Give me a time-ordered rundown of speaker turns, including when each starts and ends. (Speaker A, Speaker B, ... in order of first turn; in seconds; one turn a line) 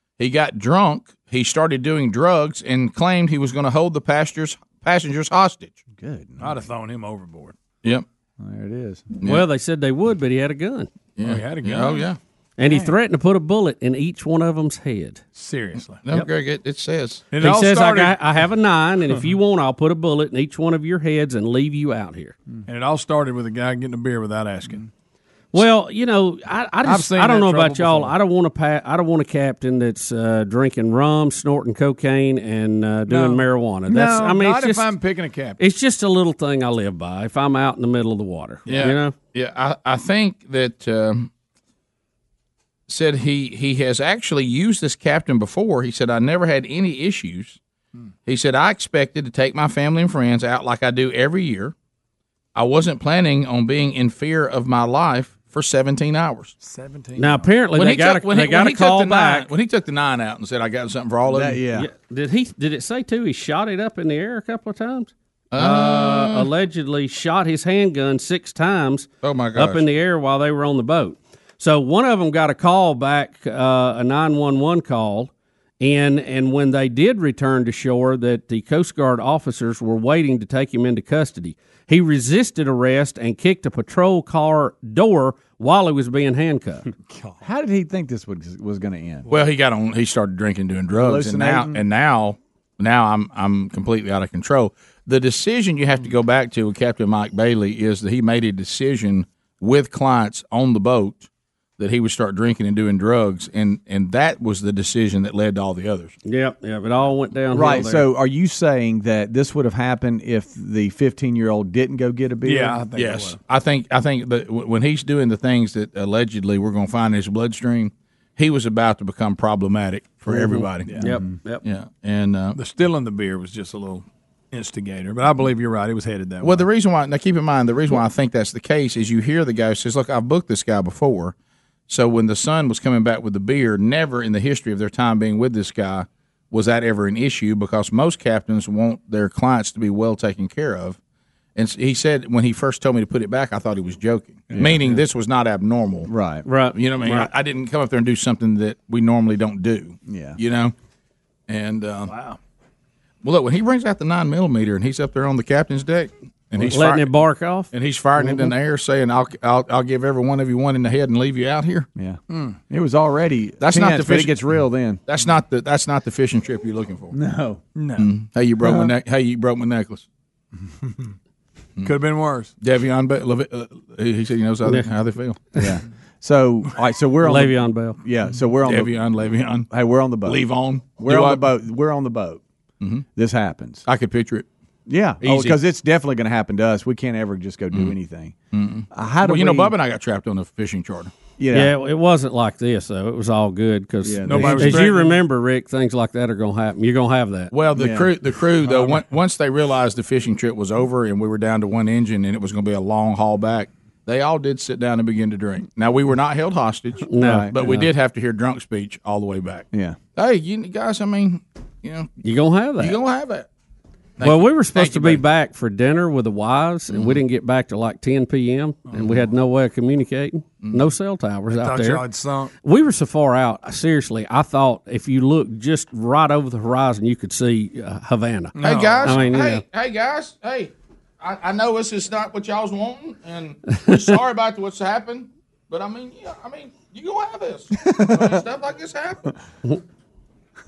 Speaker A: 0.2-5.8
Speaker B: 6.0-6.6
Speaker C: 6.4-7.5
Speaker B: 8.4-9.0
Speaker D: 9.2-10.9
Speaker A: 11.2-12.2
Speaker C: 11.2-12.1
Speaker D: 12.6-15.2
Speaker C: 12.7-12.9
Speaker C: 15.3-16.0
Speaker A: 16.0-17.2
Speaker C: 17.3-18.1
Speaker D: 17.4-22.3
Speaker C: 22.7-24.9
Speaker D: 25.5-34.9
Speaker C: 26.8-28.1
Speaker C: 33.1-35.6
Speaker D: 35.6-39.1
Speaker A: 38.7-41.3
Speaker A: 42.9-47.6
Speaker A: 48.2-51.7
Speaker A: 52.5-56.5
Speaker C: 56.6-57.5
Speaker D: 57.1-59.5
Speaker A: 57.8-61.6
Speaker B: 61.3-61.9
Speaker D: 61.8-86.9
Speaker A: 65.5-66.5
Speaker A: 69.2-69.8
Speaker C: 87.1-87.4
Speaker B: 87.4-89.3
Speaker A: 89.3-106.1
Speaker B: 90.9-91.8
Speaker D: 106.2-108.0
Speaker B: 107.5-112.8
Speaker C: 112.4-113.4
Speaker A: 112.9-121.0
Speaker B: 120.3-121.3
Speaker D: 121.0-121.6
Speaker A: 121.6-122.6
Speaker C: 122.5-126.7
Speaker A: 126.4-131.3
Speaker A: 131.9-141.0
Speaker A: 141.6-146.1
Speaker B: 144.5-144.8
Speaker B: 146.1-146.4
Speaker D: 146.4-147.3
Speaker A: 146.7-150.7
Speaker B: 150.1-150.4
Speaker A: 151.5-152.1
Speaker C: 152.1-152.4
Speaker A: 153.2-157.1
Speaker D: 156.6-157.7
Speaker A: 157.7-161.9
Speaker B: 161.9-165.0
Speaker C: 162.3-162.6
Speaker A: 163.6-164.4
Speaker A: 165.1-167.1
Speaker B: 167.1-167.6
Speaker C: 167.7-168.1
Speaker A: 168.0-170.0
Speaker C: 171.8-172.5
Speaker A: 172.6-175.4
Speaker B: 175.6-179.0
Speaker D: 177.2-178.0
Speaker A: 178.6-179.7
Speaker B: 179.7-180.4
Speaker A: 180.2-181.4
Speaker B: 181.0-182.4
Speaker A: 182.8-183.1
Speaker B: 183.2-183.8
Speaker A: 183.8-184.5
Speaker B: 184.9-188.3
Speaker A: 185.2-185.6
Speaker A: 188.5-191.1
Speaker B: 188.9-189.7
Speaker B: 191.4-191.7
Speaker D: 191.5-197.5
Speaker B: 194.0-194.8
Speaker C: 194.2-195.2
Speaker A: 197.5-212.1
Speaker B: 197.8-198.1
Speaker D: 207.1-207.8
Speaker B: 207.2-207.8
Speaker B: 209.7-210.0
Speaker D: 212.2-212.9
Speaker A: 212.8-213.5
Speaker A: 214.2-215.2
Speaker D: 214.2-222.0
Speaker A: 216.9-217.2
Speaker C: 218.9-219.2
Speaker A: 220.6-220.9
Speaker C: 221.5-222.5
Speaker D: 222.6-229.6
Speaker C: 228.6-229.2
Speaker A: 228.6-239.3
Speaker B: 237.9-238.4